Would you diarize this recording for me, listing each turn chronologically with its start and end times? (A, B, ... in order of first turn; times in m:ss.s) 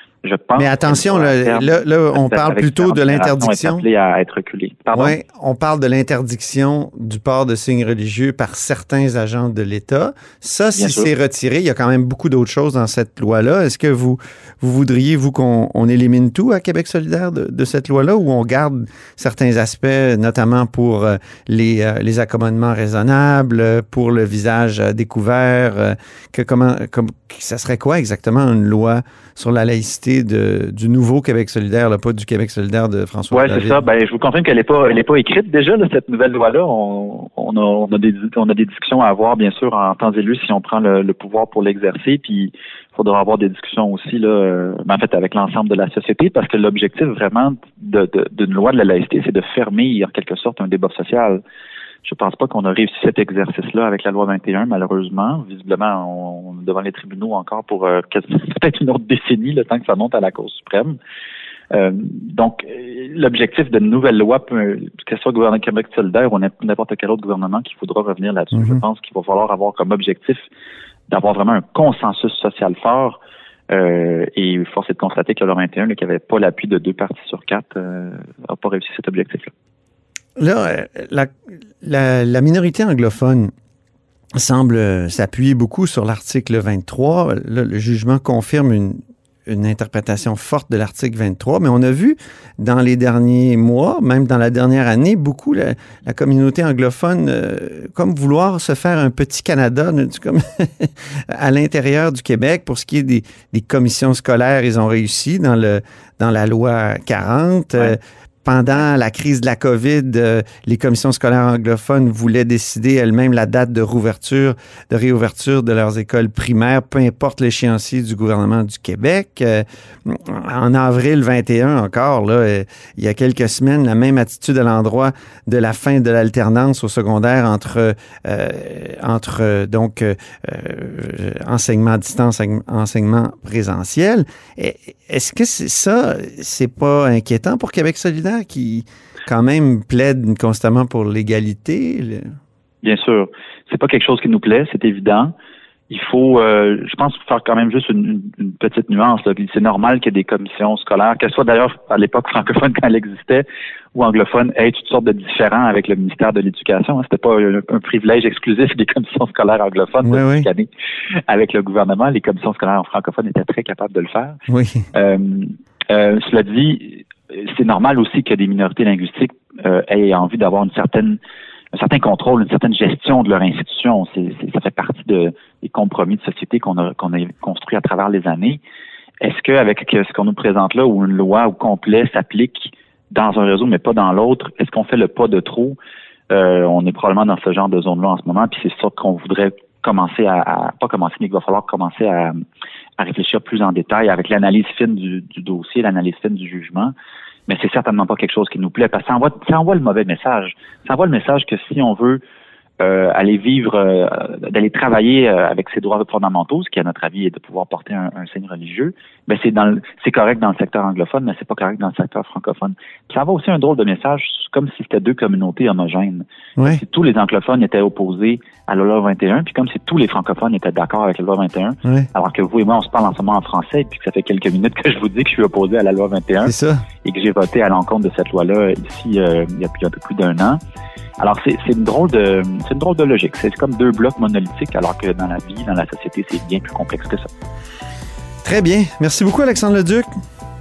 0:00.2-0:05.2 A
0:00.6-0:03.8 B
0:04.9-0:33.8 B
0:10.8-0:11.1 A
0:33.3-0:51.4 A
0:52.0-1:01.0 A
1:01.7-1:10.5 A
1:08.6-1:08.8 B
1:11.1-1:13.2 A
1:13.7-1:19.5 A
1:20.4-1:21.3 B
1:21.8-1:23.5 B
1:24.4-2:22.3 B
2:22.8-2:25.3 A
2:25.9-2:33.4 A
2:34.0-2:40.7 A
2:40.0-2:40.5 B
2:41.3-2:44.4 A
2:44.5-2:44.9 B
2:44.9-2:51.2 A
2:51.7-2:58.6 A
2:59.2-3:05.8 A
3:06.3-3:12.4 A
3:13.0-3:16.9 A
3:17.5-3:22.2 A
3:22.8-3:50.6 A
3:46.4-3:46.8 B
3:51.2-3:57.3 A
3:58.4-4:00.1 B